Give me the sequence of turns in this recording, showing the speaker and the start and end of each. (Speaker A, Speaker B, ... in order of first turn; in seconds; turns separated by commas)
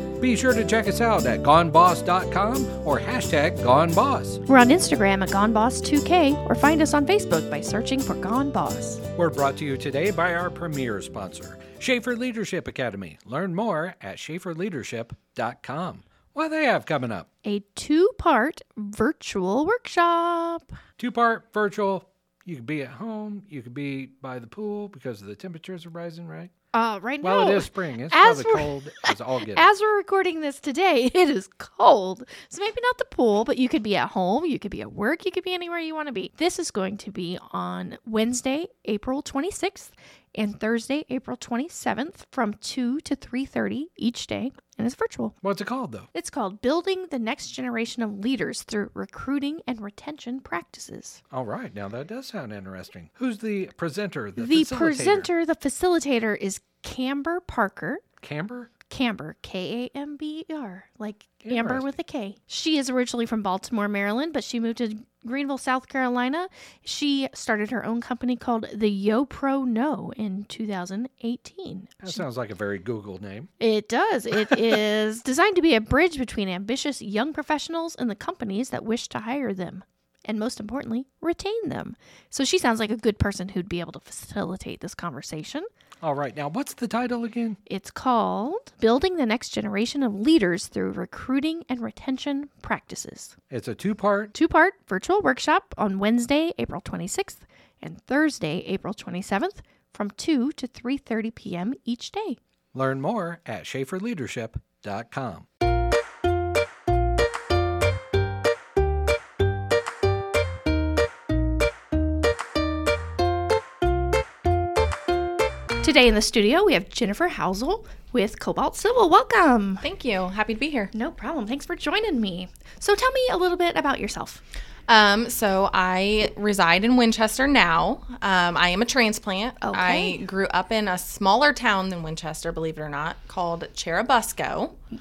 Speaker A: 0.2-4.4, Speaker B: 4.5-9.1, Speaker A: 9.2-17.3, Speaker B: 17.4-20.7, Speaker A: 21.0-26.5, Speaker B: 26.7-45.4, Speaker A: 27.2-29.7, Speaker A: 45.4-46.1, Speaker B: 46.1-51.2, Speaker A: 51.3-55.3, Speaker B: 54.4-58.0, Speaker A: 58.2-58.7, Speaker B: 58.9-72.2, Speaker A: 61.4-61.9, Speaker A: 72.0-73.5, Speaker B: 73.6-85.7, Speaker A: 74.3-74.7, Speaker A: 86.0-87.6, Speaker B: 87.7-93.3, Speaker A: 93.5-94.3, Speaker B: 94.3-102.4, Speaker A: 102.7-105.5, Speaker B: 115.8-119.8, Speaker C: 119.8-120.9, Speaker B: 120.9-124.4, Speaker C: 124.9-134.8, Speaker B: 129.6-130.2